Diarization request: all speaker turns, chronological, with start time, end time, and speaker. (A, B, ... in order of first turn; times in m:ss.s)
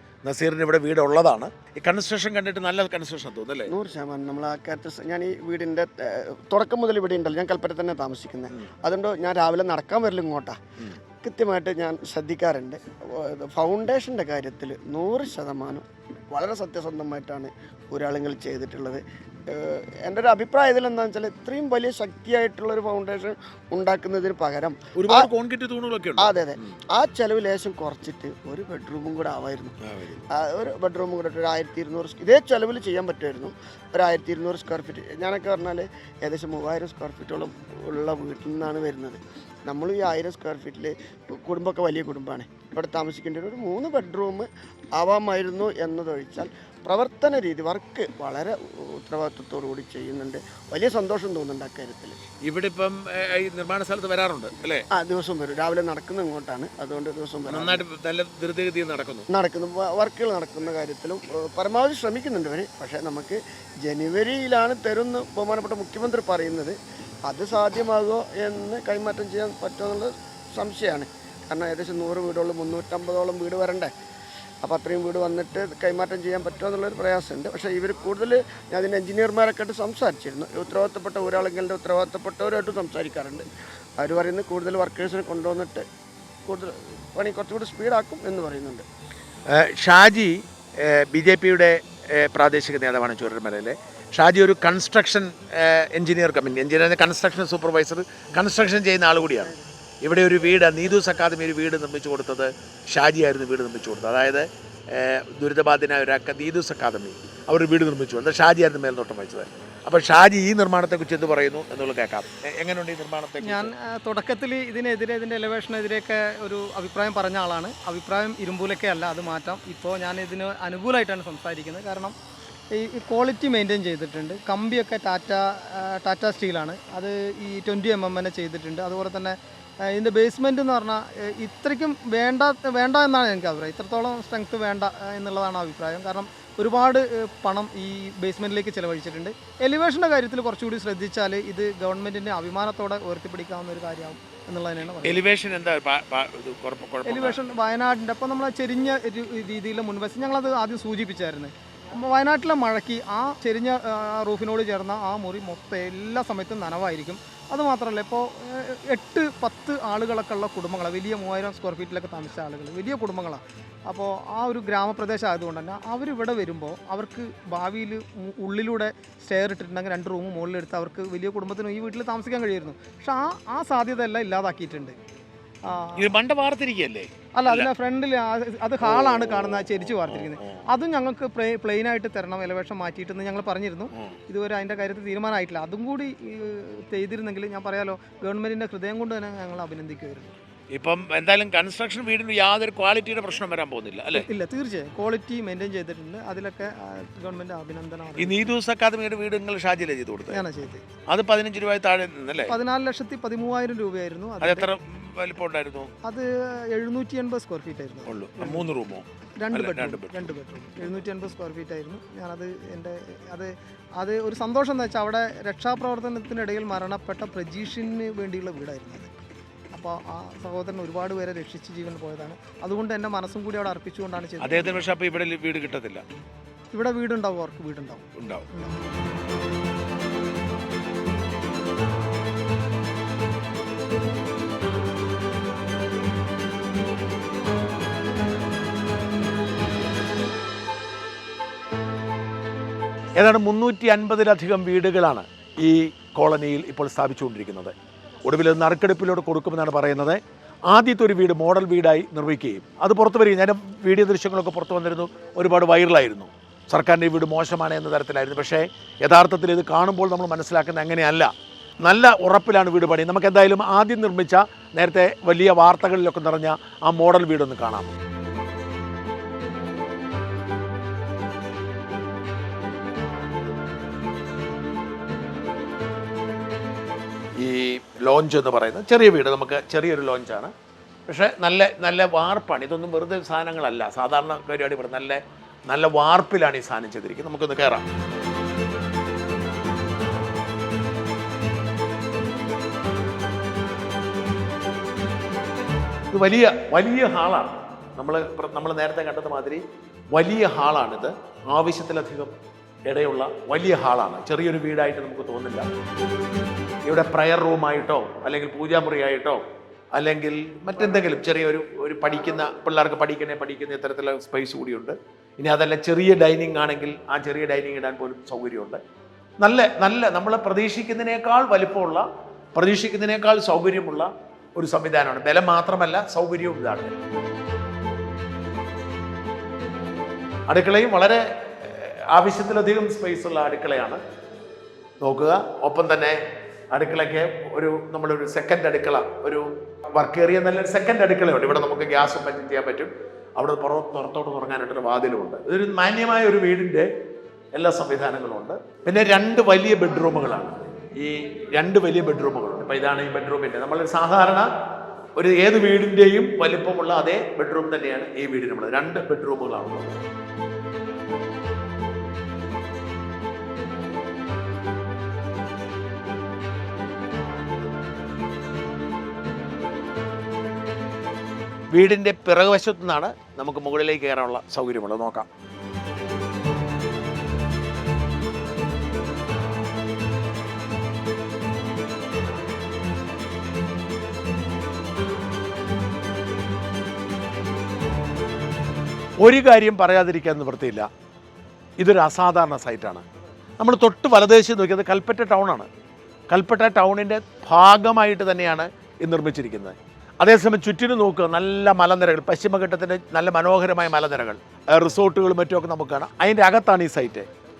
0:00.2-0:03.7 A
0:03.7-0:10.6 B
0:11.2-0:25.3 B
0:25.0-0:26.4 A
0:26.2-0:29.7 B
0:29.8-0:30.2 A
0:30.3-0:52.2 B
0:52.4-0:54.8 A
0:54.9-0:57.8 B
0:57.5-0:59.3 A
0:59.3-1:13.9 B
1:14.6-1:23.4 B
1:24.0-1:25.8 B
1:26.4-1:28.9 B
1:29.5-1:53.7 A
1:53.4-2:02.1 C
2:02.7-2:09.4 C
2:09.9-2:25.2 C
2:25.0-2:27.4 A
2:27.1-2:54.9 C
2:55.6-2:56.0 C
2:56.0-2:57.7 A
2:57.4-3:10.3 C
2:58.8-3:00.6 A
3:10.7-3:14.2 A
3:14.2-3:18.4 C
3:18.2-3:20.4 A
3:20.3-3:20.8 C
3:21.1-3:22.5 A
3:22.5-3:24.7 C
3:24.4-3:25.9 A
3:26.0-3:28.6 C
3:28.1-3:30.3 A
3:29.4-3:39.1 C
3:39.7-3:44.8 C
3:44.4-3:46.0 A
3:46.7-3:48.8 C
3:48.2-3:48.5 A
4:03.2-4:07.7 A
4:08.2-4:21.3 A
4:21.8-4:27.9 A
4:37.4-4:40.5 A
4:41.1-4:47.8 A
4:56.1-5:02.3 A
5:02.8-5:05.7 A
5:06.8-5:09.4 A
5:09.9-5:18.8 A
5:19.4-5:22.0 A
5:22.6-5:26.9 A
5:30.5-5:34.0 A
5:35.0-5:36.2 A
5:36.7-5:46.9 A
5:47.5-5:54.5 A
5:55.2-5:59.9 A
6:11.7-6:15.3 A
6:29.2-6:30.8 A
6:31.8-6:33.0 A
6:33.6-6:35.7 A
6:36.3-6:47.3 A